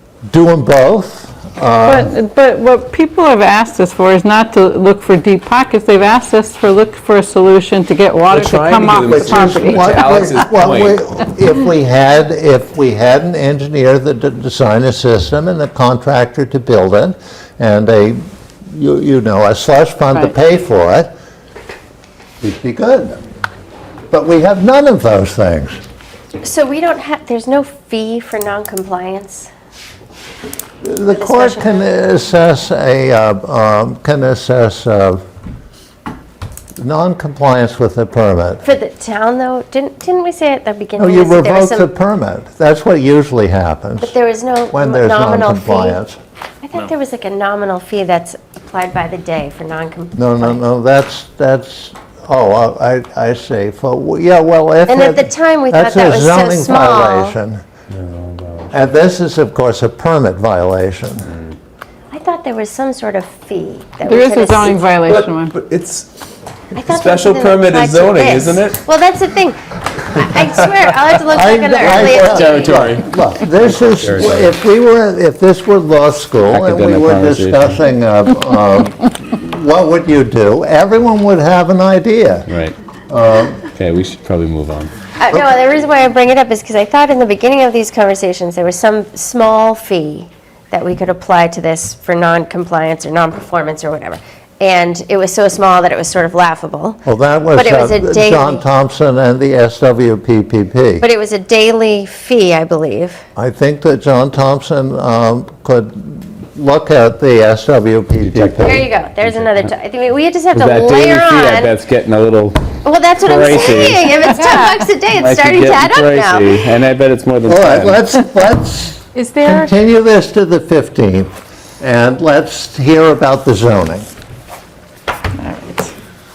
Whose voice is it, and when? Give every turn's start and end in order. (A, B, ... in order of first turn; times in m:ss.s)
0:00.3-0:02.1 A
0:01.8-0:10.2 B
0:08.3-0:11.0 C
0:09.1-0:18.2 A
0:18.7-0:21.1 A
0:22.4-0:23.2 A
0:24.1-0:25.8 A
0:26.4-0:29.5 D
0:30.8-0:35.2 A
0:31.1-0:31.9 D
0:36.8-0:38.6 A
0:38.6-0:41.9 D
0:41.0-0:44.1 A
0:44.0-0:46.0 D
0:44.7-0:46.2 A
0:46.6-0:50.6 D
0:50.1-0:57.6 A
0:54.9-0:57.4 D
0:57.9-0:58.7 C
0:58.7-1:01.3 A
1:02.1-1:04.8 D
1:04.0-1:05.5 B
1:05.1-1:06.1 C
1:06.7-1:13.0 D
1:06.8-1:08.8 C
1:10.4-1:10.8 C
1:11.3-1:22.5 A
1:11.8-1:13.1 C
1:13.6-1:14.6 C
1:16.5-1:17.8 C
1:22.5-1:22.8 C
1:23.1-1:23.6 A
1:23.7-1:24.9 C
1:25.2-1:38.6 D
1:37.0-1:41.0 A
1:41.0-1:43.2 D
1:43.4-1:48.8 A
1:48.2-1:49.7 C
1:48.6-1:51.7 D
1:50.5-1:52.7 C
1:52.8-1:56.6 D
1:53.2-1:54.2 C
1:55.2-1:58.0 C
1:57.4-2:04.1 A
1:59.1-1:59.7 B
2:05.4-2:05.9 B